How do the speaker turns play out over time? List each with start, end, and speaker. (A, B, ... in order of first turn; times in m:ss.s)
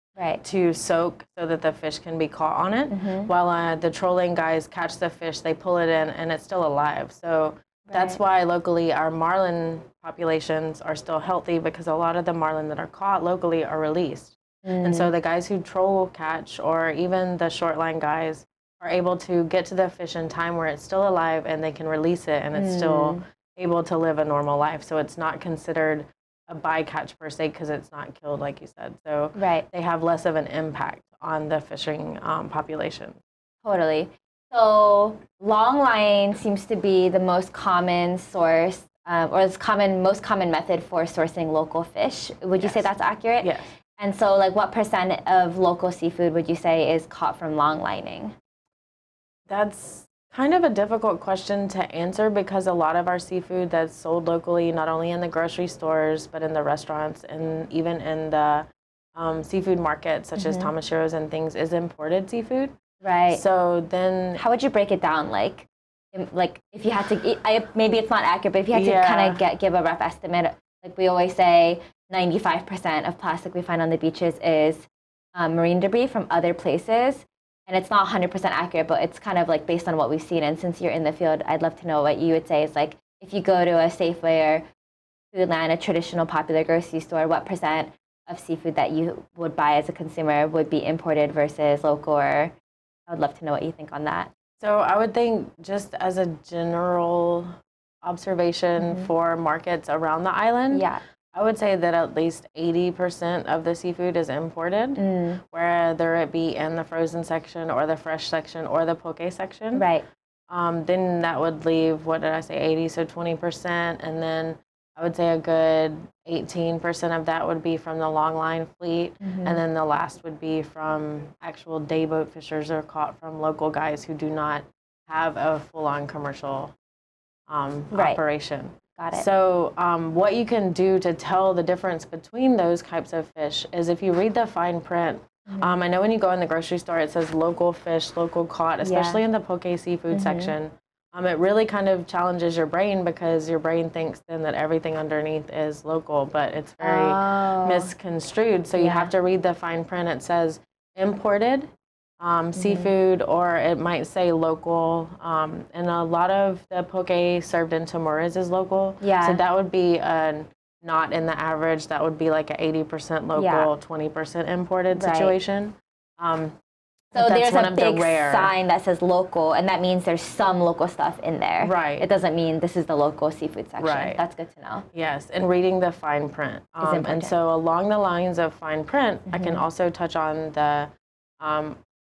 0:00.2-0:00.4 A
0:00.4-0:33.2 B
0:02.9-0:03.3 A
0:07.9-0:08.2 A
0:14.6-0:15.1 A
0:22.5-0:23.2 A
0:29.3-0:29.6 A
0:33.6-0:48.3 A
0:42.6-0:43.7 B
0:49.5-1:02.7 B
1:00.4-1:00.7 A
1:03.0-1:03.4 A
1:03.3-1:04.4 B
1:04.4-1:24.6 A
1:08.7-1:09.4 B
1:25.3-1:32.5 A
1:33.1-1:34.3 A
1:34.6-1:49.9 B
1:38.8-1:39.1 A
1:40.7-1:41.0 A
1:45.0-1:45.4 A
1:49.7-1:50.0 A
1:50.5-2:06.7 B
1:59.2-1:59.6 A
2:07.5-2:46.6 B
2:07.9-2:08.2 A
2:09.0-2:09.2 A
2:15.5-2:15.8 A
2:18.8-2:19.2 A
2:20.1-2:20.5 A
2:26.8-2:27.9 A
2:28.8-2:29.1 A
2:32.6-2:32.9 A
2:39.0-2:39.4 A
2:43.3-2:43.7 A
2:44.9-2:45.3 A
2:47.1-2:48.5 B
2:47.1-2:54.8 A
2:51.6-2:52.1 B
2:53.8-2:54.2 B
2:54.9-3:01.8 B
2:56.8-2:57.3 A
2:59.3-2:59.6 A